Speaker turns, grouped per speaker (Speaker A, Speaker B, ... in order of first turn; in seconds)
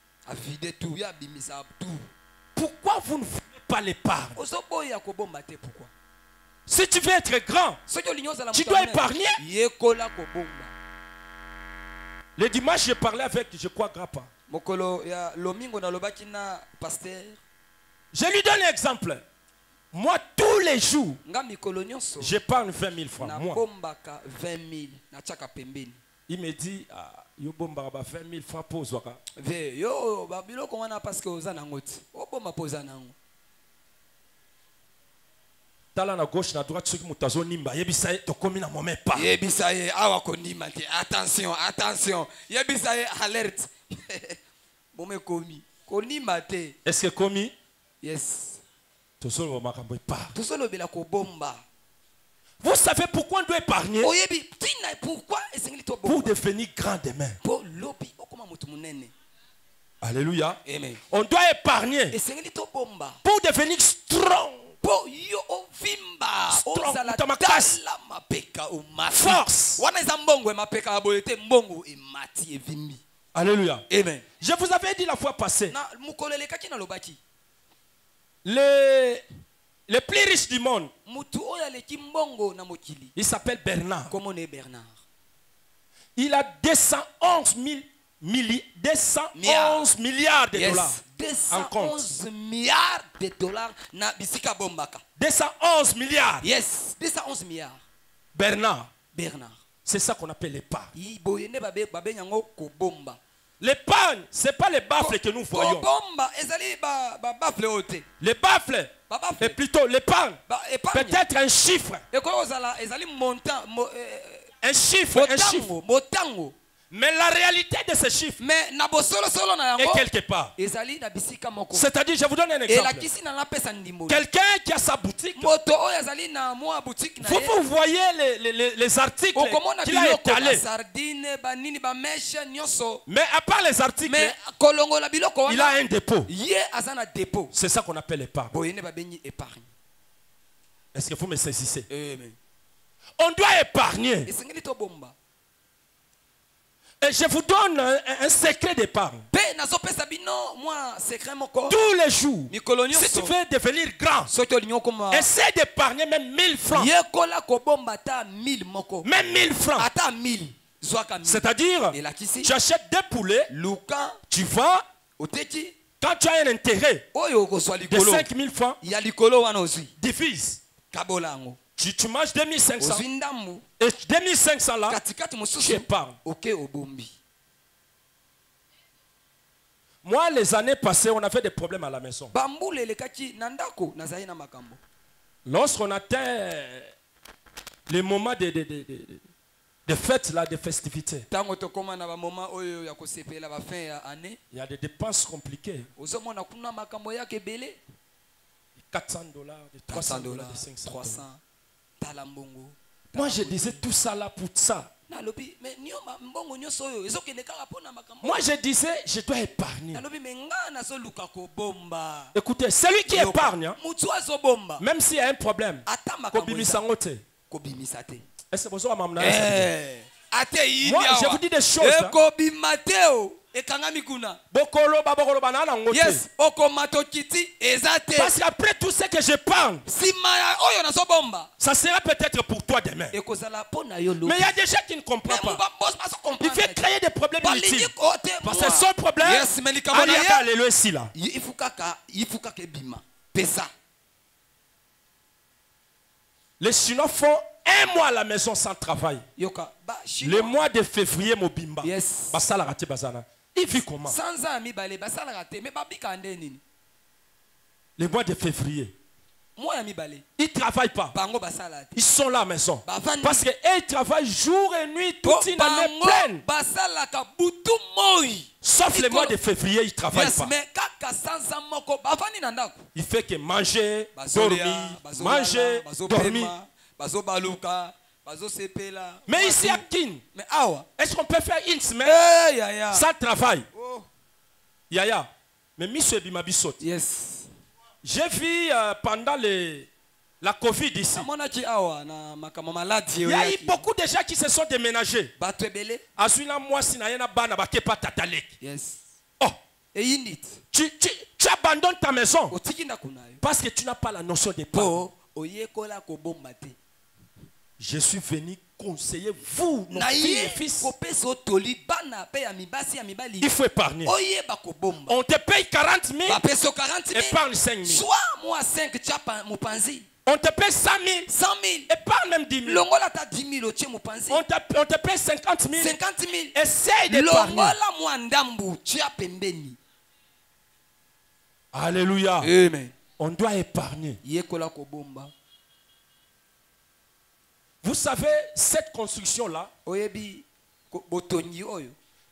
Speaker A: 0.3-2.1, 4.3-5.9, 7.9-10.7, 14.5-17.4, 21.2-22.3, 23.2-26.0, 29.4-33.1, 39.1-44.4, 44.9-46.8, 48.0-48.6, 50.3-51.6, 54.0-56.3, 57.4-59.1, 60.6-61.0, 62.1-63.2, 64.8-73.0, 73.9-74.2, 75.7-77.2, 81.0-83.1, 84.1-85.0, 89.3-89.9, 90.5-95.0, 96.4-97.8, 99.1-99.6, 100.9-103.2, 105.0-108.0, 109.1-109.6, 110.5-111.2, 112.1-114.5, 115.1-116.5, 118.4-120.0, 120.6-121.9, 122.7-124.2, 125.4-127.5, 129.3-133.0, 134.1-137.5, 138.5-139.7, 141.9-142.4, 144.2-145.1, 149.3-151.8, 152.5-153.3, 154.3-155.3, 156.7-159.1, 159.8-162.5, 163.5-164.2, 165.2-165.8, 167.1-168.3, 168.8-169.9, 170.9-171.6, 172.8-173.6, 174.9-177.2, 182.3-184.8, 191.3-194.4, 196.0-197.8, 199.9-201.4, 202.0-203.8, 205.1-208.4, 209.9-212.3, 213.1-214.8, 215.8-216.8, 217.5-218.2, 219.2-224.4, 225.9-228.3, 229.8-231.5, 233.1-234.6, 235.2-236.8, 237.4-240.4, 241.1-243.7, 249.4-250.5, 251.8-252.4, 254.0-256.6, 259.6-260.2, 261.1-262.0, 262.8-263.4, 265.2-269.4, 270.1-272.8, 274.1-280.9, 282.0-283.0, 283.7-284.1, 286.8-287.5, 291.1-293.8, 295.4-296.0, 298.6-299.0, 299.9-300.6, 302.5-303.4, 304.7-306.8, 309.9-313.5, 314.0-315.2, 316.2-320.1, 321.3-321.9, 322.6-324.4, 325.8-326.5, 327.1-329.8, 332.4-332.9, 334.2-335.3, 339.8-341.9
Speaker B: 2.5-4.4, 6.7-7.8, 8.5-9.4, 12.4-14.3, 18.1-19.2, 19.9-21.2, 22.2-23.6, 26.3-29.2, 35.9-39.3, 46.8-47.5, 49.2-50.3, 52.6-54.1, 56.0-57.4, 60.0-62.1, 63.2-64.7, 66.5-67.8, 69.1-69.8, 73.3-73.8, 74.4-75.7, 78.4-79.2, 79.9-80.9, 83.2-84.1, 86.2-92.0, 95.2-96.5, 98.3-98.9, 99.8-100.9, 103.6-105.9, 108.2-110.4, 110.9-112.0, 114.6-115.7, 116.9-118.4, 119.8-120.5, 121.7-123.1, 124.1-125.5, 127.2-130.6, 133.1-134.3, 135.5-136.3, 137.5-138.5, 140.9-141.9, 143.2-144.3, 147.0-149.2, 151.7-154.3, 155.1-156.9, 159.0-159.9, 161.2-163.5, 164.3-164.8, 166.0-167.0, 167.9-168.8, 170.0-170.6, 171.8-173.0, 173.8-175.0, 175.6-176.2, 180.0-182.3, 185.4-186.9, 187.9-189.2, 189.8-191.2, 194.5-195.9, 198.8-201.2, 203.1-204.9, 208.2-210.0, 212.3-213.8, 214.8-217.2, 218.5-219.7, 220.8-222.2, 224.5-226.2, 228.2-229.8, 231.6-233.1, 234.2-235.6, 236.4-237.9, 238.4-241.1, 246.6-249.2, 250.2-254.2, 258.0-258.9, 260.4-261.1, 261.9-266.4, 268.6-270.5, 272.9-276.5, 279.3-280.2, 281.0-282.2, 282.9-283.7, 284.9-286.8, 288.0-289.9, 290.4-291.3, 293.2-295.3, 296.2-298.5, 300.7-302.6, 303.4-305.0, 307.8-310.9, 313.4-314.1, 315.1-316.4, 317.1-318.0, 320.2-321.3, 321.9-322.9, 324.3-326.0, 326.5-327.8, 331.7-332.5, 333.2-334.2, 337.8-339.7